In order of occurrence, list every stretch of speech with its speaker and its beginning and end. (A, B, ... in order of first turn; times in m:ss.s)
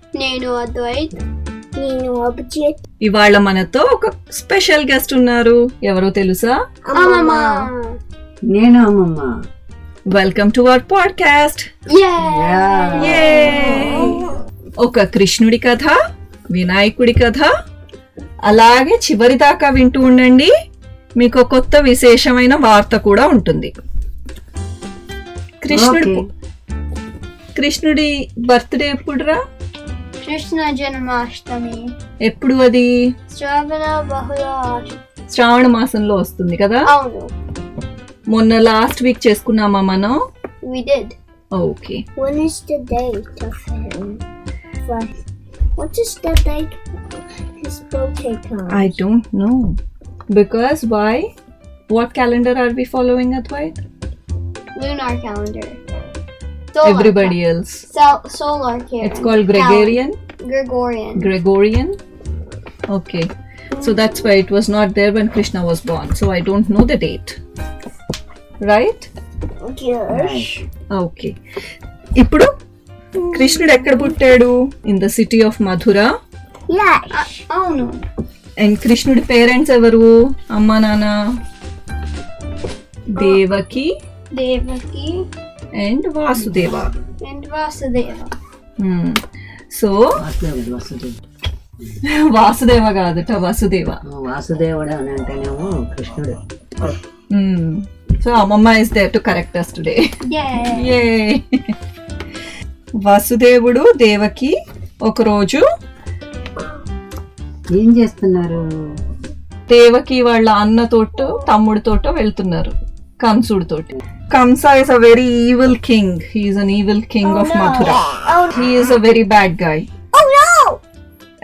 0:00.2-0:01.2 A
0:01.8-0:02.8 B
0:03.0-0:06.6 C
0:06.9-0:07.7 B
0:06.9-0:07.9 A
0:08.5-0:09.3 D
0:10.1-0:11.7 C
0:11.9-0:13.8 A
0:12.2-0:13.4 D
0:13.0-0:14.2 C
0:13.6-0:14.2 B
0:14.8-0:16.0 C
0:16.5-0:17.5 C
0:18.5-0:20.5 C
0:21.2-0:23.7 C
0:25.6-0:26.3 C
0:25.7-0:26.3 D
0:27.6-0:29.4 C
0:30.2-0:31.9 A
0:32.2-0:32.9 C
0:33.3-0:35.0 A
0:35.3-0:36.9 C
0:36.9-0:37.3 A
0:38.3-0:40.2 C
0:40.6-0:41.2 A
0:41.6-0:42.0 C
0:42.2-0:44.2 B
0:44.8-0:45.2 B
0:45.8-0:46.8 B
0:47.6-0:49.0 B
0:48.7-0:49.8 C
0:50.3-0:51.3 C
0:51.9-0:53.8 C
0:54.8-0:55.8 A
0:56.7-0:57.4 A
0:56.8-0:57.9 C
0:57.9-1:01.3 A
0:59.0-1:00.2 C
1:01.2-1:02.0 C
1:02.9-1:07.4 C
1:08.6-1:09.1 C
1:09.6-1:10.5 B
1:10.1-1:10.6 D
1:10.9-1:11.4 C
1:12.2-1:12.5 C
1:13.2-1:16.1 C
1:16.7-1:17.4 B
1:17.1-1:18.0 A
1:18.6-1:21.2 C
1:23.1-1:23.9 C
1:24.3-1:25.3 A
1:25.8-1:26.9 C
1:27.2-1:28.3 A
1:28.8-1:30.2 C
1:30.2-1:31.2 D
1:32.0-1:34.0 C
1:34.1-1:36.4 D
1:37.3-1:40.2 C
1:40.2-1:41.0 A
1:40.7-1:41.8 C
1:43.0-1:45.6 C
1:47.7-1:48.6 D
1:49.7-1:59.9 C
1:57.3-1:58.0 A
1:57.8-1:58.7 B
2:00.1-2:00.8 B